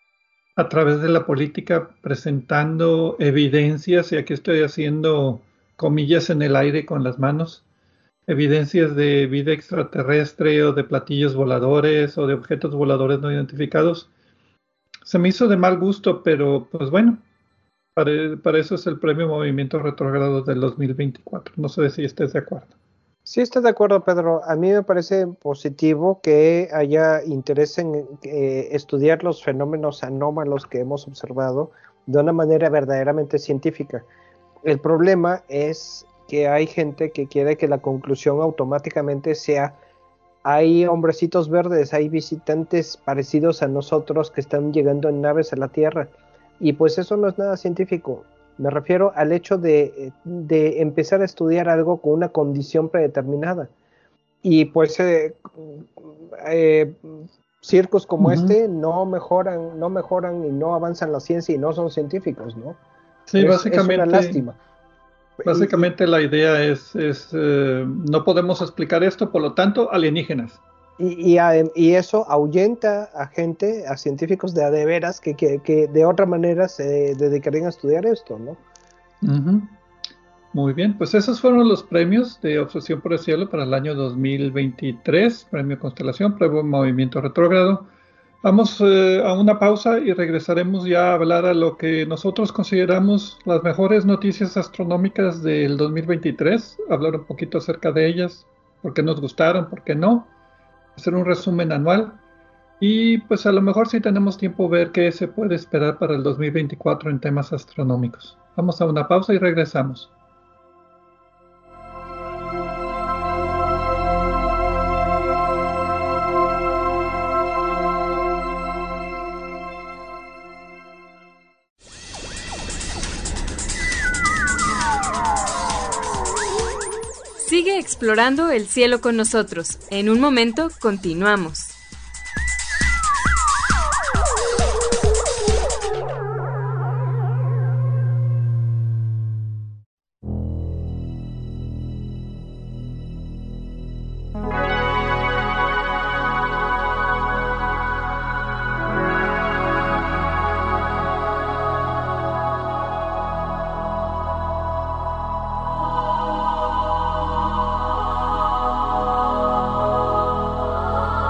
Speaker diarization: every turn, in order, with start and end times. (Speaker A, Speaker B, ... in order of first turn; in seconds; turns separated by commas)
Speaker A: 0.6-7.6, Speaker A: 8.3-14.1, Speaker A: 15.0-17.2, Speaker A: 17.9-22.7, Speaker B: 23.2-34.1, Speaker B: 34.6-39.8, Speaker B: 40.4-53.7, Speaker B: 54.4-62.8, Speaker A: 58.2-58.5, Speaker A: 63.3-64.4, Speaker B: 63.4-64.5, Speaker B: 65.4-65.9, Speaker A: 65.4-70.6, Speaker B: 71.0-78.6, Speaker A: 79.2-79.7, Speaker A: 80.5-87.9, Speaker A: 88.4-100.3, Speaker A: 101.0-102.2, Speaker A: 102.8-110.1, Speaker C: 127.4-131.7